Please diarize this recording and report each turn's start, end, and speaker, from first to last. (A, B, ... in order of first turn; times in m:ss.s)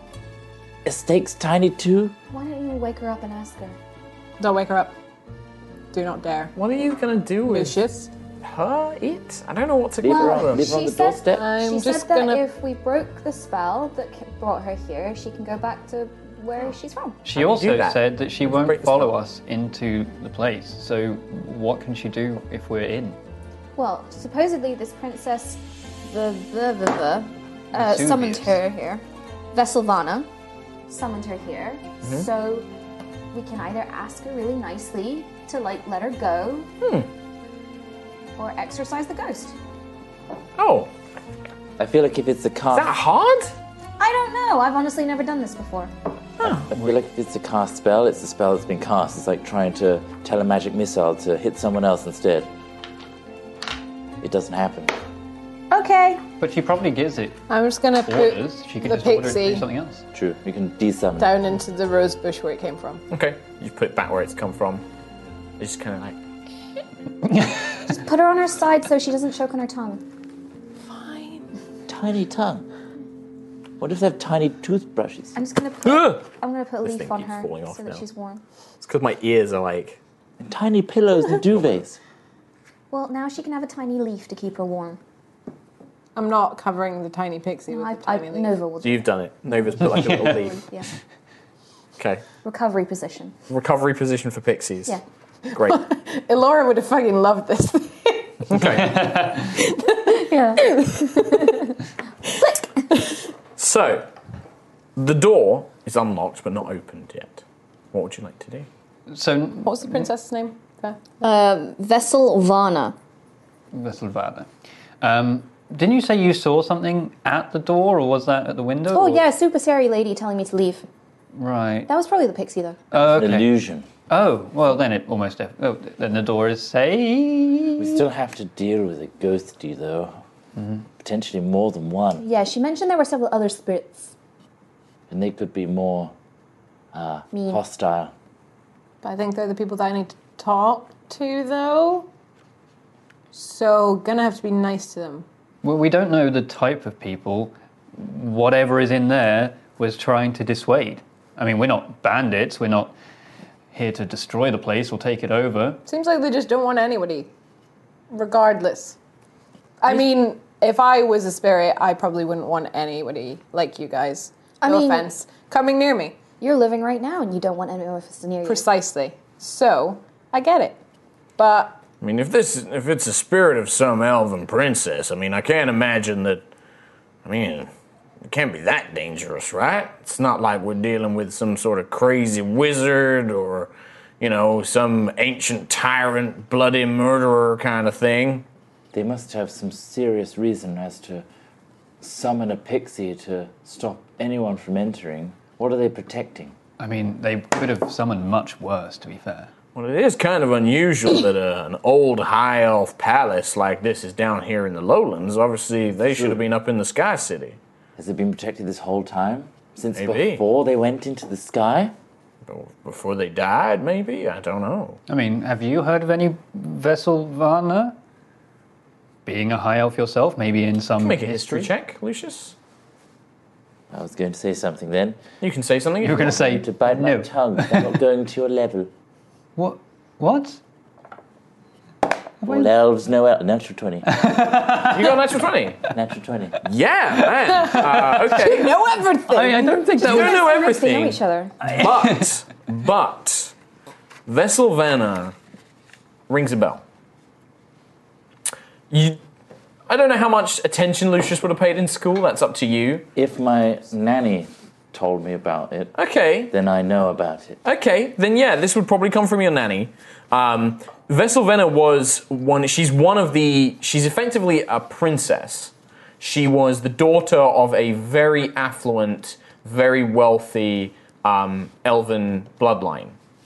0:00.8-0:02.1 A
0:02.3-0:03.8 B
0:04.4-0:04.9 C
0:05.9-0:06.5 C
0:06.6-0:07.8 D
0:07.4-0:08.1 C
0:08.4-0:10.7 D
0:10.0-0:11.5 A
0:10.0-0:17.2 B
0:11.3-0:12.4 C
0:17.2-0:23.2 E
0:17.3-0:19.1 D
0:23.8-0:30.3 B
0:27.7-0:28.6 E
0:30.9-0:32.7 B
0:33.3-0:36.7 B
0:36.8-0:37.1 D
0:38.4-0:39.6 B
0:40.6-0:40.9 D
0:41.8-0:43.0 A
0:42.7-0:43.5 D
0:44.0-0:45.9 B
0:46.4-0:46.7 D
0:46.6-0:52.5 A
0:46.7-0:47.0 E
0:54.2-0:55.0 A
0:55.7-0:56.2 B
0:56.4-0:57.4 E
0:57.5-0:59.7 C
0:58.0-1:00.0 E
1:00.1-1:01.4 A
1:01.2-1:03.0 C
1:03.1-1:04.8 D
1:05.6-1:06.2 D
1:07.2-1:07.9 E
1:07.9-1:10.0 B
1:10.9-1:11.5 C
1:11.9-1:12.7 A
1:13.8-1:15.4 A
1:15.4-1:18.4 B
1:15.8-1:16.2 D
1:16.8-1:18.0 D
1:18.8-1:20.0 D
1:20.4-1:22.0 A
1:22.9-1:25.0 B
1:26.2-1:28.6 C
1:27.7-1:30.9 B
1:28.8-1:30.6 D
1:29.8-1:30.4 E
1:32.0-1:32.2 D
1:32.4-1:33.3 B
1:33.5-1:35.0 D
1:35.5-1:38.5 C
1:35.5-1:35.8 D
1:38.5-1:39.2 D
1:38.6-1:39.5 E
1:39.4-1:41.7 C
1:40.1-1:41.7 B
1:42.2-1:42.8 B
1:43.6-1:44.1 D
1:45.0-1:48.7 D
1:49.1-1:50.0 E
1:49.6-1:51.0 C
1:51.2-1:53.0 B
1:53.7-1:54.5 E
1:55.0-1:59.2 E
1:58.9-2:00.8 B
2:01.3-2:01.9 E
2:01.9-2:02.8 B
2:02.9-2:03.5 E
2:03.0-2:03.9 A
2:04.1-2:08.0 E
2:07.8-2:10.2 A
2:10.6-2:10.8 E
2:11.0-2:12.2 A
2:12.2-2:14.1 B
2:15.1-2:16.1 A
2:16.9-2:18.1 A
2:17.3-2:17.6 B
2:19.0-2:22.1 C
2:23.3-2:25.3 C
2:25.6-2:32.9 E
2:33.7-2:35.8 E
2:35.9-2:37.3 C
2:38.1-2:39.0 C
2:39.8-2:46.2 C
2:44.6-2:45.1 B
2:46.4-2:48.7 B
2:48.4-2:50.8 C
2:51.4-2:51.8 C
2:52.0-2:56.4 D
2:57.2-2:57.7 D
2:58.3-3:08.5 D
3:08.9-3:11.2 A
3:12.0-3:16.6 A
3:16.8-3:19.5 E
3:19.8-3:27.6 D
3:26.1-3:26.4 A
3:28.0-3:32.0 A
3:30.0-3:30.4 D
3:32.5-3:35.0 D
3:35.1-3:38.0 E
3:39.3-3:41.7 E
3:41.0-3:42.6 D
3:43.9-3:45.2 A
3:45.4-3:46.4 D
3:46.0-3:48.0 E
3:46.2-3:48.9 A
3:49.6-3:50.6 E
3:52.4-3:52.7 E
3:52.4-3:54.2 A
3:54.1-3:55.2 E
3:54.7-3:55.8 D
3:55.9-3:56.6 A
3:56.6-3:58.8 D
3:57.2-3:58.3 E
3:57.7-3:59.9 C
3:59.3-4:00.4 E
4:00.0-4:03.5 D
4:00.0-4:01.5 B
4:01.6-4:02.3 E
4:04.3-4:05.3 D
4:06.3-4:06.8 D
4:08.9-4:09.2 D
4:09.9-4:13.1 D
4:13.2-4:15.9 A
4:16.0-4:16.5 D
4:16.5-4:17.6 A
4:17.6-4:33.2 D